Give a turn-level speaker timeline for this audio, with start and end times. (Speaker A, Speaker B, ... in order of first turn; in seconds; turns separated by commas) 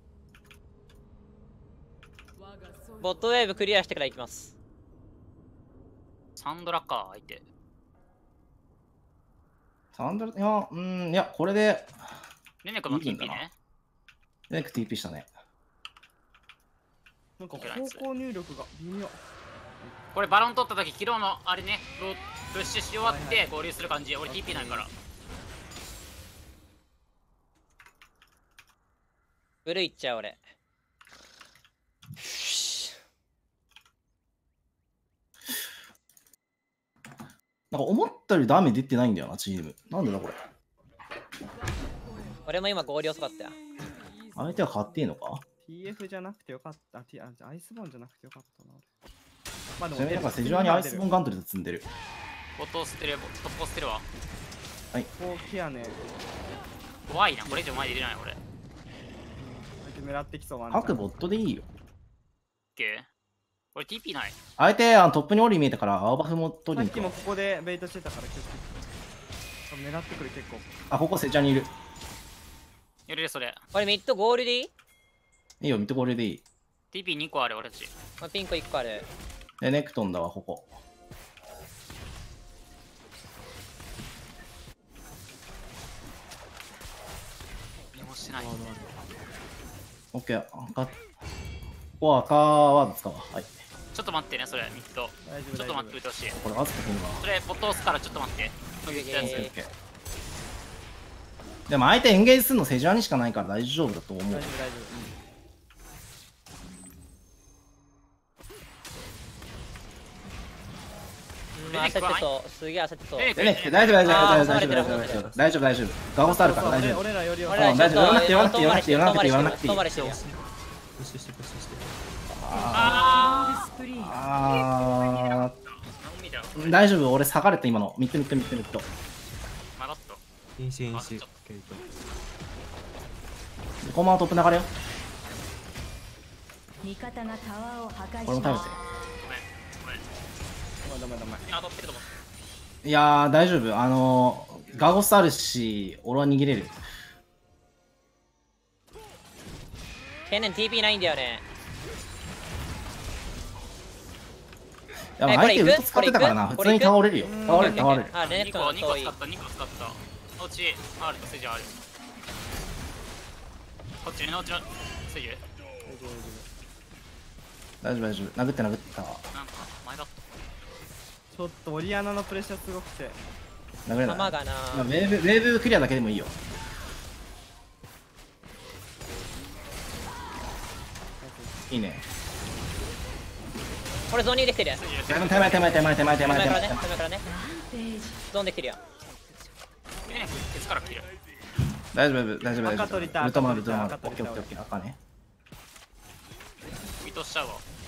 Speaker A: 3.0-4.5, Speaker B: 6.3-7.4, Speaker C: 9.9-11.9, Speaker B: 12.6-13.5, Speaker C: 12.9-13.4, Speaker C: 14.5-15.3, Speaker D: 17.4-19.2, Speaker B: 17.5-18.1, Speaker B: 20.1-24.9, Speaker D: 23.0-23.5, Speaker D: 24.2-24.9, Speaker A: 29.6-30.4, Speaker A: 32.2-32.9, Speaker C: 37.7-40.4, Speaker A: 42.5-43.5, Speaker C: 44.3-45.4, Speaker D: 45.6-48.8, Speaker D: 49.8-51.1, Speaker C: 49.9-51.9, Speaker B: 52.6-54.0, Speaker D: 55.2-56.0, Speaker B: 57.1-58.4, Speaker D: 57.4-58.0, Speaker D: 59.4-61.0, Speaker C: 60.7-61.7, Speaker B: 62.8-63.1, Speaker B: 63.7-64.3, Speaker C: 64.6-67.2, Speaker D: 66.7-68.8, Speaker D: 69.7-70.7, Speaker C: 70.9-71.7, Speaker B: 73.1-73.6, Speaker A: 73.7-74.7, Speaker C: 75.6-76.4, Speaker B: 76.9-77.9, Speaker A: 78.2-79.1, Speaker C: 79.6-80.7, Speaker B: 87.9-88.8, Speaker E: 88.4-88.8, Speaker C: 90.1-91.0, Speaker C: 92.0-93.5, Speaker B: 93.9-96.4, Speaker D: 95.2-96.0, Speaker C: 96.4-97.2, Speaker B: 97.2-99.5, Speaker A: 98.9-99.5, Speaker C: 99.2-99.7, Speaker C: 101.7-104.5, Speaker D: 104.3-105.2, Speaker A: 111.5-113.3, Speaker B: 111.6-112.3, Speaker B: 113.2-115.0, Speaker C: 113.3-119.8, Speaker A: 114.0-115.2, Speaker E: 114.3-115.5, Speaker D: 116.2-118.6, Speaker A: 117.5-120.2, Speaker E: 119.8-120.4, Speaker E: 121.0-121.9, Speaker C: 122.3-123.2, Speaker F: 122.5-124.2, Speaker B: 122.7-123.7, Speaker C: 124.0-125.5, Speaker B: 124.9-126.8, Speaker C: 126.5-128.9, Speaker B: 129.8-130.2, Speaker E: 130.6-131.8, Speaker B: 130.9-131.3, Speaker C: 133.8-134.7, Speaker F: 136.8-138.8, Speaker C: 138.2-138.8, Speaker B: 139.2-140.0, Speaker D: 140.8-141.4, Speaker B: 141.4-142.1, Speaker C: 142.8-146.8, Speaker A: 150.3-151.4, Speaker C: 155.2-158.1, Speaker A: 155.3-156.9, Speaker D: 157.2-157.9, Speaker A: 157.5-159.1, Speaker B: 157.8-161.8, Speaker B: 164.0-165.4, Speaker D: 165.8-166.5, Speaker C: 167.8-169.3, Speaker B: 169.3-170.2, Speaker D: 171.3-173.2, Speaker C: 173.8-176.3, Speaker A: 174.0-174.9, Speaker D: 181.2-181.6, Speaker C: 181.7-182.0, Speaker A: 184.1-184.8, Speaker B: 184.8-186.2, Speaker C: 185.1-186.8, Speaker A: 186.2-187.2, Speaker F: 187.2-188.2, Speaker A: 188.3-188.8, Speaker F: 189.2-189.5, Speaker B: 190.1-191.1, Speaker C: 191.9-195.0, Speaker D: 192.6-194.5, Speaker B: 197.0-197.6